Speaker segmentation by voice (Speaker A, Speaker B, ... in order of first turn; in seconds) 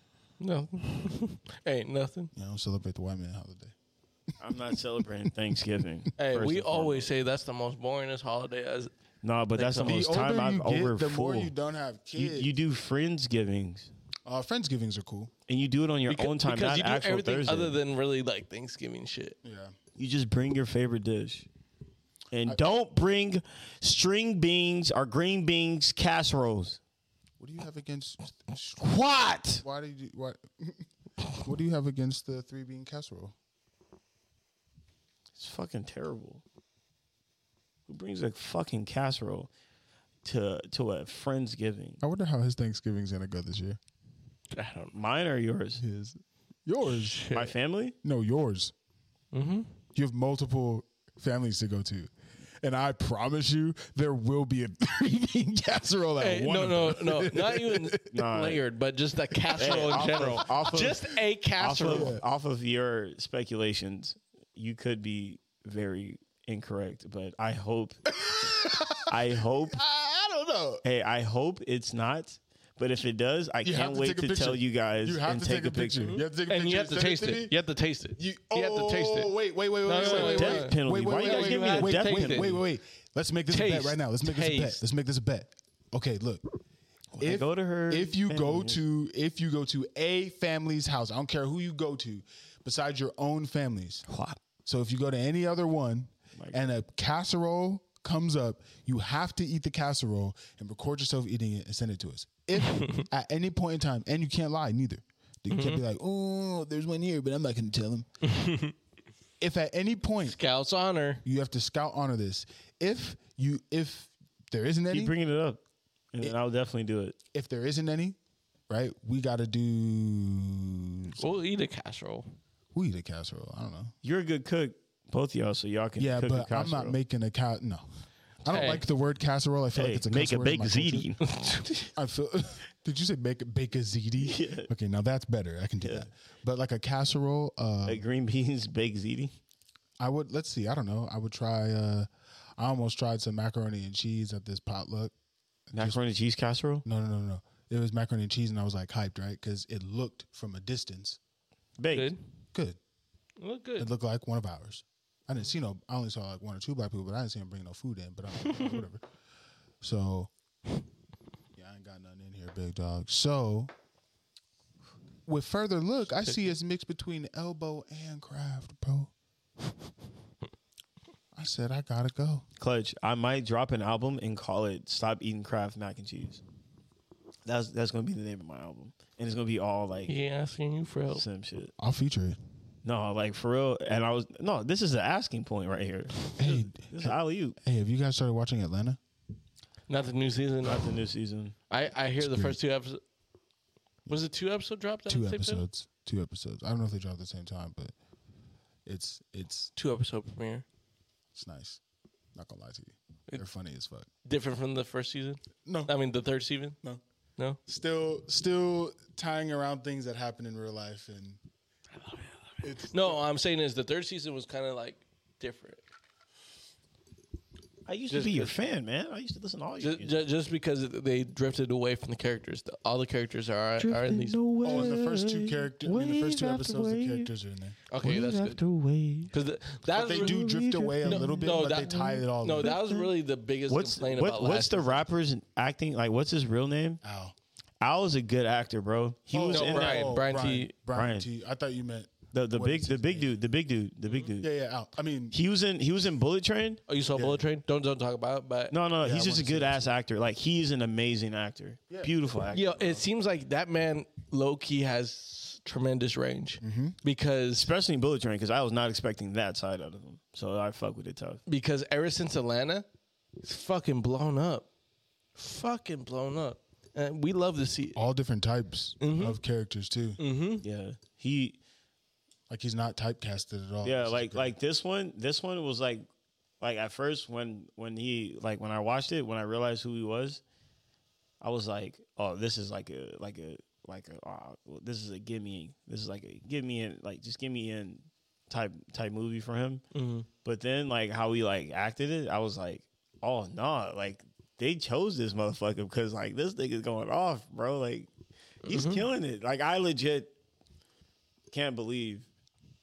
Speaker A: 0.4-2.3, 6.2-8.9, 9.5-10.1, 16.1-19.4, 44.5-44.9, 46.9-47.5, 49.3-49.7, 56.2-62.1, 76.0-79.3, 79.8-82.6, 83.5-84.8, 102.6-103.0, 105.5-105.8, 108.2-108.7, 110.2-111.2, 121.2-122.3, 128.5-128.8, 131.3-131.9, 151.9-152.2, 153.4-153.9, 158.5-158.8, 166.2-166.5, 180.1-181.2, 189.9-191.0, 191.7-193.0, 194.1-195.6, 199.8-200.6, 204.2-206.8, 212.9-215.8, 218.1-218.5, 219.8-224.9, 227.9-228.6, 229.3-235.1, 239.5-240.7, 246.9-248.7, 252.5-257.7, 261.5-262.9, 263.4-264.7, 265.4-268.0, 269.0-269.4, 270.2-270.6, 289.9-290.3, 298.6-299.1
Speaker B: 2.3-3.7, 9.8-12.5, 14.2-15.3, 19.4-19.7, 27.4-28.9, 29.5-33.3, 42.0-43.8, 45.8-47.2, 48.0-48.7, 49.9-52.1, 52.6-58.1, 59.3-60.9, 61.9-62.2, 68.1-70.8, 73.6-77.5, 78.2-86.4, 87.2-94.0, 94.6-108.1, 109.4-110.4, 111.2-115.1, 117.3-118.2, 118.7-121.3, 122.7-123.9, 126.0-127.8, 128.4-131.1, 131.9-138.0, 140.0-145.1, 145.7-146.0, 146.8-151.2, 152.5-152.8, 153.8-159.0, 159.8-160.3, 161.6-163.7, 165.3-169.1, 171.3-172.4, 181.8-182.4, 186.3-189.0, 192.2-192.6, 195.1-197.9, 198.8-199.7, 201.3-201.8, 202.3-204.1, 205.6-205.9, 207.7-211.4, 212.6-213.2, 224.6-227.8, 229.9-232.8, 237.0-237.3, 239.3-243.3, 244.4-245.3, 247.1-247.4, 249.0-249.9, 251.9-252.4, 256.6-256.9, 267.9-270.2, 272.5-274.5
Speaker C: 4.4-7.1, 9.2-11.5, 12.2-13.9, 15.5-17.7, 19.9-21.5, 22.3-26.8, 28.8-29.6, 35.4-36.4, 37.9-39.5, 40.2-42.0, 44.9-45.8, 47.3-48.0, 58.1-58.6, 59.6-61.0, 61.6-68.0, 69.0-69.8, 70.8-76.2, 79.9-82.6, 87.1-88.8, 94.1-94.4, 114.9-115.6, 116.1-117.2, 124.0-127.0, 129.7-131.3, 134.2-134.7, 135.8-136.1, 137.8-139.3, 145.7-146.8, 151.8-152.1, 172.6-176.4, 177.4-180.1, 181.1-181.7, 182.8-187.6, 190.6-191.5, 217.8-220.2, 223.8-227.3, 227.9-229.3, 229.9-232.0, 232.6-233.1, 233.7-237.0, 237.8-240.1, 240.9-241.2, 242.3-244.5, 245.3-246.8, 248.7-253.0, 257.5-261.4, 270.6-271.6, 273.8-276.1, 276.6-280.4, 281.4-289.8, 290.4-298.1, 298.6-300.3, 301.5-302.3